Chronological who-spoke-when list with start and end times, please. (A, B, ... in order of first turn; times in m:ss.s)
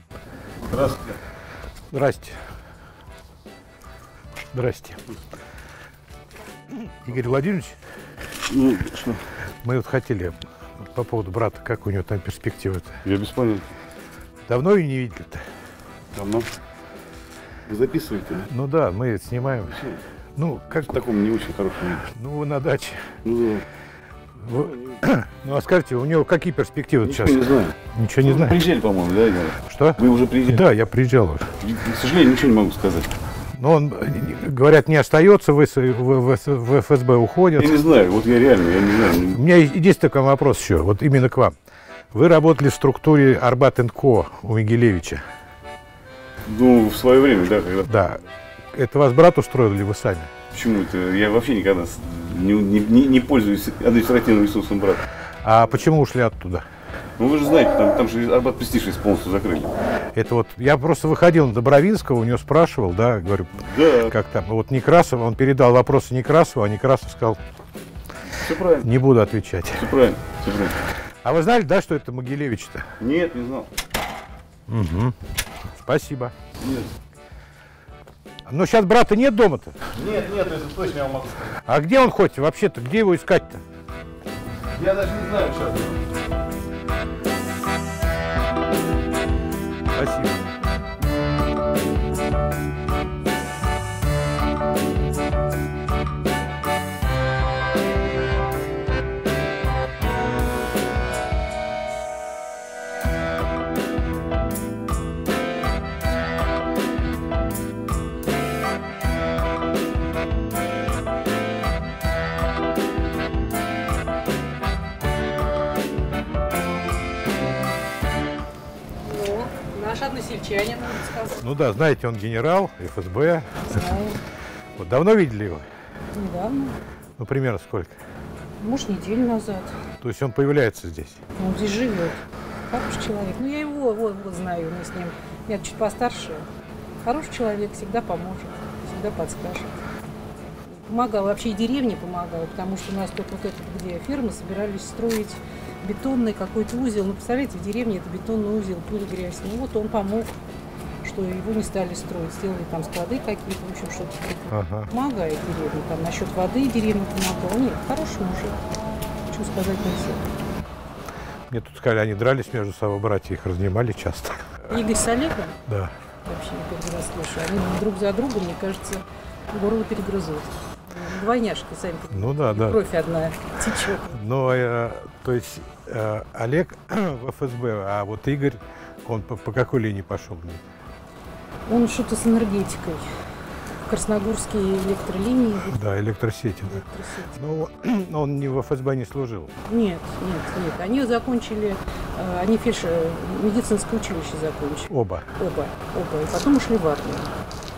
0:00.7-0:01.2 A
0:01.9-0:02.4 B
0:04.5-0:05.0 B
0:06.7-0:07.8 B
0:08.5-0:09.2 A
0:09.6-0:13.0 B
0:13.0-0:13.7 A
0:14.5-0:15.4 B
0:16.1-0:16.5 A
0:17.7-0:18.5 A
0:18.4-0:20.9 B
0:20.8-0:22.0 A
0:22.0-0:23.2 B
0:23.2-0:23.6 A
0:24.4-0:28.6 B
0:27.0-0:30.6 A
0:29.6-0:31.6 B
0:31.6-0:33.1 A
0:33.6-0:37.8 B
0:37.6-0:39.4 A
0:39.3-0:41.6 B
0:42.1-0:45.2 B
0:46.5-0:47.9 A
0:47.9-0:48.2 B
0:48.7-0:50.3 B
0:50.5-0:55.0 A
0:55.4-0:56.7 B
0:57.2-0:59.7 A
1:00.1-1:07.4 B
1:03.7-1:04.1 A
1:08.3-1:08.9 A
1:08.8-1:09.9 B
1:09.8-1:10.8 A
1:11.2-1:12.9 B
1:13.0-1:13.7 A
1:14.7-1:15.2 B
1:15.8-1:16.3 B
1:16.6-1:16.9 A
1:18.4-1:19.8 B
1:19.9-1:21.5 A
1:21.6-1:23.6 B
1:24.7-1:26.0 A
1:30.0-1:30.5 B
1:59.0-2:01.4 C
2:01.4-2:03.8 B
2:03.7-2:04.2 C
2:04.8-2:05.7 B
2:06.1-2:06.8 C
2:07.2-2:08.0 B
2:08.6-2:09.8 C
2:10.0-2:11.2 B
2:11.4-2:16.5 C
2:17.0-2:19.8 C
2:20.7-2:30.4 C
2:31.0-2:38.6 C
2:34.5-2:34.9 B
2:39.3-2:40.3 C
2:41.5-2:44.8 B
2:44.7-2:45.6 C
2:45.7-2:45.9 B
2:46.2-2:54.2 C
2:52.1-2:52.8 B
2:54.1-3:00.6 B
3:01.7-3:03.1 C
3:03.7-3:05.8 C
3:05.6-3:06.8 B
3:06.7-3:07.4 C
3:07.4-3:09.5 B
3:09.6-3:17.4 C
3:14.9-3:15.3 B